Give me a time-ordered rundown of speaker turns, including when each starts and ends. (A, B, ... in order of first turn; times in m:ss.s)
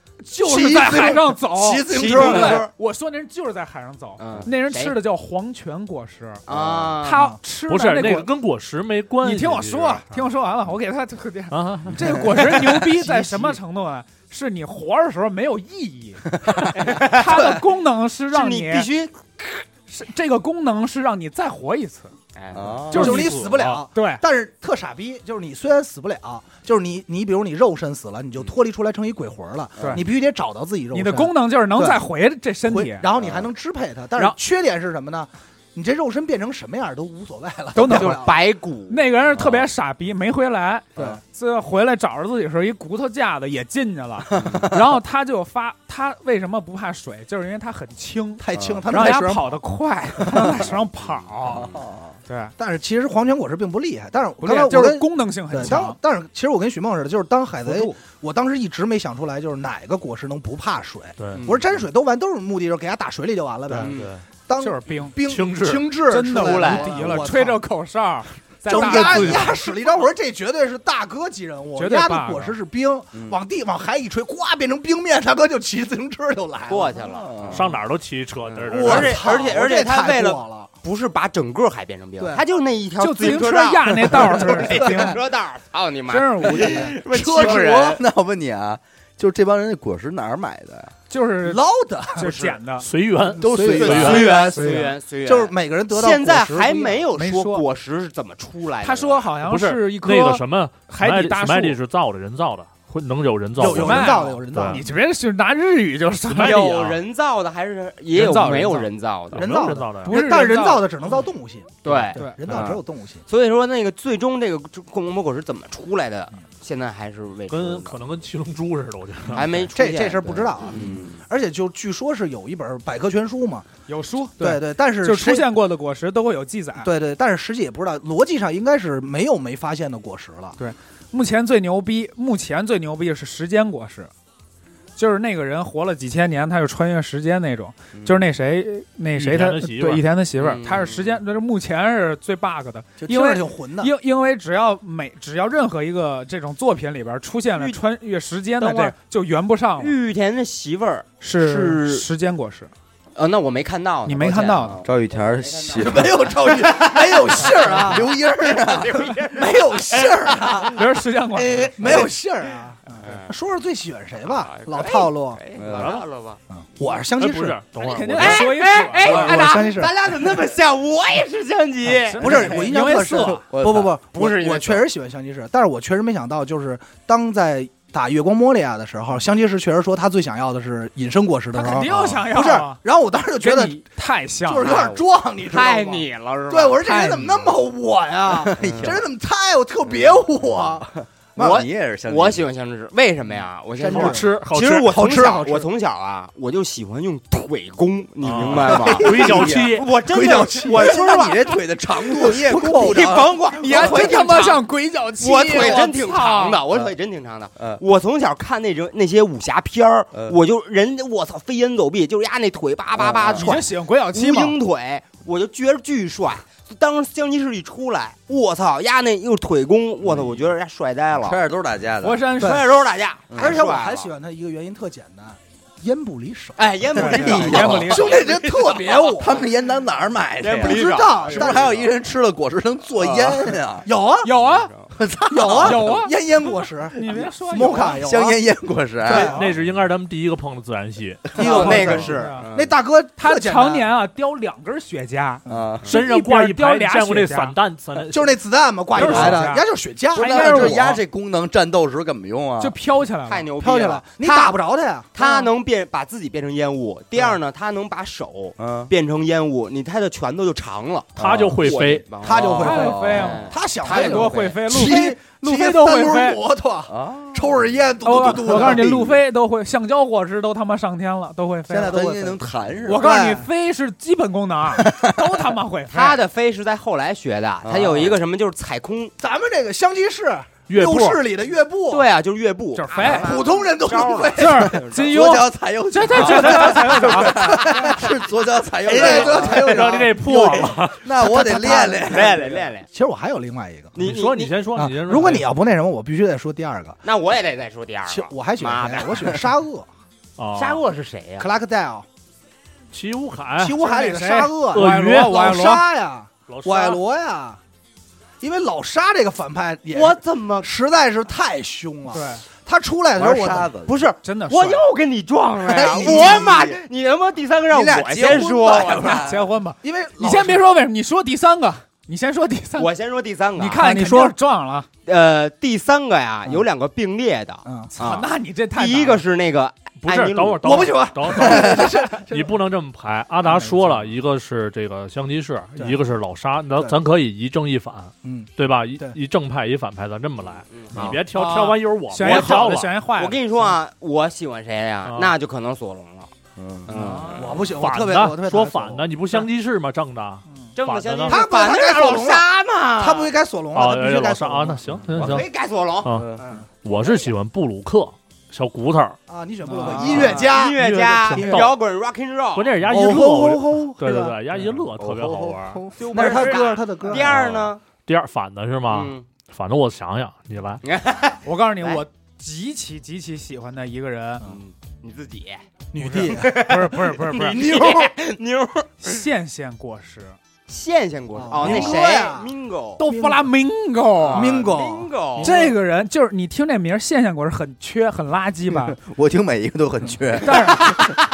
0:00.2-0:06.4 A
0:00.4-0:02.7 B
0:01.9-0:02.7 C
0:04.2-0:05.0 C
0:06.4-0:07.4 C
0:06.5-0:06.9 D
0:07.0-0:08.3 A
0:07.7-0:10.3 E
0:09.2-0:16.3 A
0:11.5-0:12.4 E
0:12.6-0:13.6 B
0:16.8-0:17.5 C
0:16.9-0:18.9 A
0:17.3-0:17.6 B
0:18.3-0:19.6 C
0:19.9-0:22.1 A
0:22.3-0:22.9 C
0:22.5-0:23.3 D
0:22.9-0:24.2 A
0:22.9-0:23.3 E
0:22.9-0:32.0 B
0:30.9-0:33.0 A
0:32.6-0:38.3 B
0:33.2-0:33.5 D
0:37.7-0:38.4 A
0:37.8-0:39.1 C
0:38.9-0:51.7 A
0:39.3-0:39.6 D
0:44.3-0:44.8 D
0:48.4-0:49.6 B
0:48.5-0:48.9 D
0:50.3-0:50.6 B
0:51.4-0:51.8 C
0:51.4-0:52.2 D
0:52.3-0:52.5 A
0:52.6-1:07.6 B
0:54.4-0:56.0 A
0:57.6-0:58.0 A
1:01.2-1:01.5 E
1:01.3-1:01.7 C
1:03.7-1:04.2 E
1:03.8-1:04.1 C
1:04.6-1:05.2 A
1:05.2-1:05.9 E
1:06.1-1:09.6 A
1:06.3-1:06.9 C
1:08.7-1:17.0 B
1:08.7-1:09.6 E
1:11.8-1:12.5 A
1:16.7-1:17.6 C
1:17.0-1:17.7 D
1:17.5-1:19.5 E
1:18.4-1:28.0 C
1:18.7-1:20.7 B
1:23.0-1:25.2 A
1:24.4-1:25.0 B
1:26.1-1:27.0 A
1:26.6-1:28.0 B
1:27.2-1:30.9 D
1:31.1-1:32.9 A
1:31.4-1:32.3 B
1:32.2-1:32.6 C
1:32.8-1:34.3 E
1:33.4-1:34.3 D
1:33.4-1:37.0 B
1:33.6-1:39.3 C
1:34.1-1:34.9 A
1:37.1-1:37.6 A
1:38.8-1:41.8 A
1:39.4-1:44.8 E
1:43.6-1:44.8 B
1:43.7-1:46.9 A
1:46.3-1:49.6 C
1:46.4-1:46.7 E
1:48.1-1:48.9 A
1:49.3-1:50.2 E
1:49.3-1:53.2 B
1:50.0-1:50.9 A
1:51.8-1:58.0 C
1:51.9-1:52.8 E
1:52.1-1:52.4 A
1:57.5-1:59.7 E
1:59.3-2:01.1 C
1:59.7-2:03.6 B
2:00.7-2:01.0 D
2:03.9-2:06.9 A
2:04.4-2:05.5 B
2:06.8-2:10.6 B
2:10.6-2:14.1 A
2:15.0-2:30.0 A
2:17.9-2:18.2 D
2:19.2-2:20.0 E
2:20.4-2:21.2 C
2:23.0-2:23.9 B
2:27.5-2:27.8 C
2:28.6-2:28.9 B
2:29.8-2:32.0 C
2:31.2-2:32.7 A
2:33.2-2:40.8 C
2:34.0-2:34.8 A
2:34.8-2:36.4 D
2:35.8-2:38.1 B
2:37.5-2:39.1 D
2:39.4-2:40.8 B
2:40.7-2:41.7 A
2:41.4-2:42.1 C
2:41.7-2:45.4 B
2:43.0-2:43.3 C
2:44.2-2:46.4 C
2:45.6-2:46.0 D
2:45.7-2:46.0 E
2:46.5-2:47.6 B
2:47.1-2:48.6 E
2:47.8-2:49.0 A
2:48.2-2:52.7 C
2:49.0-2:49.9 B
2:51.8-2:53.4 A
2:52.2-3:03.8 B
2:53.5-2:53.9 D
2:53.6-2:54.9 C
3:01.5-3:02.8 A
3:03.4-3:04.9 A
3:04.4-3:10.9 B
3:04.6-3:06.8 C
3:06.8-3:07.5 A
3:08.4-3:09.0 D
3:08.6-3:09.0 C
3:09.8-3:10.2 C
3:10.5-3:12.4 D
3:11.4-3:21.6 C
3:13.8-3:14.3 B
3:13.8-3:14.9 E
3:14.9-3:15.7 B
3:18.2-3:20.0 E
3:18.3-3:23.3 D
3:19.0-3:19.5 B
3:20.0-3:21.3 B
3:22.1-3:24.6 C
3:22.2-3:23.0 B
3:23.5-3:26.6 A
3:25.2-3:41.4 C
3:33.0-3:33.6 D
3:33.4-3:34.6 A
3:40.0-3:40.4 D
3:41.2-3:42.3 D
3:42.0-3:42.6 A
3:42.4-3:42.6 B
3:42.4-3:44.1 C
3:43.3-3:43.6 D
3:43.3-3:46.6 B
3:46.6-3:49.3 C
3:46.9-3:48.1 A
3:47.1-3:48.3 D
3:47.2-3:49.4 B
3:49.1-3:53.9 D
3:50.4-3:51.9 C
3:50.6-3:51.7 B
3:53.0-3:53.5 C
3:53.8-3:54.3 B
3:54.2-3:54.7 A
3:54.3-3:54.9 C
3:54.9-3:56.0 D
3:55.3-3:58.4 B
3:55.5-3:56.1 A
3:57.0-3:58.0 A
3:57.8-3:59.3 D
3:59.0-3:59.4 B
3:59.1-3:59.6 A
3:59.2-4:01.4 E
4:01.3-4:02.5 A
4:01.3-4:02.7 C
4:01.3-4:03.9 B
4:03.2-4:07.6 A
4:05.4-4:05.7 B
4:05.4-4:05.9 D
4:05.8-4:08.4 E
4:08.1-4:11.0 B
4:08.9-4:10.9 A
4:09.0-4:09.4 C
4:09.0-4:09.4 D
4:10.1-4:12.8 D
4:12.6-4:13.5 A
4:13.3-4:14.6 C
4:13.6-4:15.5 B
4:15.1-4:24.6 C
4:18.6-4:18.9 D
4:21.2-4:21.6 D
4:21.2-4:22.2 E
4:22.2-4:28.9 B
4:22.4-4:23.5 D
4:22.6-4:26.4 A
4:26.9-4:29.2 D
4:28.0-4:32.2 A
4:31.7-4:33.1 D
4:31.9-4:33.4 B
4:32.8-4:36.2 A
4:34.8-4:35.1 D
4:35.9-4:39.1 C
4:37.6-4:38.2 D
4:39.2-4:42.1 B
4:40.7-4:41.2 E
4:41.9-4:45.2 C
4:42.7-4:43.4 A
4:43.0-4:44.8 B
4:44.4-4:47.6 A
4:44.7-4:52.5 D
4:46.2-4:48.1 B
4:48.8-4:53.9 B
4:48.8-4:50.0 C
4:49.6-4:51.0 E
4:51.8-4:52.9 C
4:53.9-4:54.6 C
4:54.0-4:55.5 E
4:54.7-4:57.0 B
4:57.0-4:59.4 C
4:58.1-4:59.8 B
5:00.4-5:00.8 E
5:00.5-5:01.5 C
5:01.4-5:02.0 B
5:02.9-5:03.8 E
5:03.6-5:07.6 B
5:03.8-5:05.8 A
5:04.7-5:05.7 E
5:06.5-5:07.0 E
5:08.4-5:13.7 B
5:09.9-5:10.7 C
5:12.1-5:12.4 A
5:13.1-5:13.9 D
5:13.8-5:19.3 C
5:14.2-5:14.8 A
5:15.7-5:16.8 B
5:15.8-5:16.7 D
5:17.7-5:20.6 B
5:17.9-5:19.2 D
5:19.1-5:22.9 A
5:22.8-5:23.8 C
5:23.6-5:24.9 A
5:23.8-5:24.3 B
5:25.0-5:31.0 C
5:27.6-5:27.9 B
5:28.0-5:29.2 A
5:30.0-5:42.9 E
5:30.6-5:32.6 B
5:38.2-5:39.2 B
5:40.5-5:41.2 C
5:41.3-5:43.4 A
5:42.2-5:46.3 C
5:45.0-5:45.3 E
5:46.6-5:46.9 D
5:46.9-5:47.6 C
5:46.9-5:47.4 A
5:47.3-5:49.1 B
5:47.8-5:51.4 E
5:50.7-5:53.3 C
5:51.3-5:52.4 B
5:53.0-5:54.8 B
5:53.7-5:55.5 E
5:54.9-5:55.4 D
5:55.1-5:56.6 C
5:56.0-5:59.2 E
5:59.3-6:00.8 B
5:59.6-6:00.3 A
5:59.8-6:02.8 C
6:00.0-6:01.7 E
6:01.3-6:01.7 A
6:01.3-6:01.7 B
6:02.5-6:05.8 E
6:02.8-6:04.4 B
6:05.0-6:06.4 D
6:06.0-6:07.8 C
6:06.1-6:07.3 B
6:07.2-6:07.6 D
6:07.9-6:10.8 E
6:08.9-6:09.2 C
6:10.8-6:12.0 C
6:11.4-6:14.4 A
6:14.4-6:15.6 C
6:15.9-6:16.7 B
6:16.0-6:17.6 A
6:16.2-6:19.2 C
6:17.4-6:18.1 B
6:19.0-6:20.4 A
6:20.7-6:23.0 C
6:21.4-6:22.5 B
6:21.6-6:22.0 A
6:23.0-6:24.6 A
6:23.0-6:23.4 B
6:24.2-6:25.6 C
6:24.3-6:25.8 B
6:25.4-6:29.0 A
6:28.7-6:31.0 D
6:30.4-6:31.0 A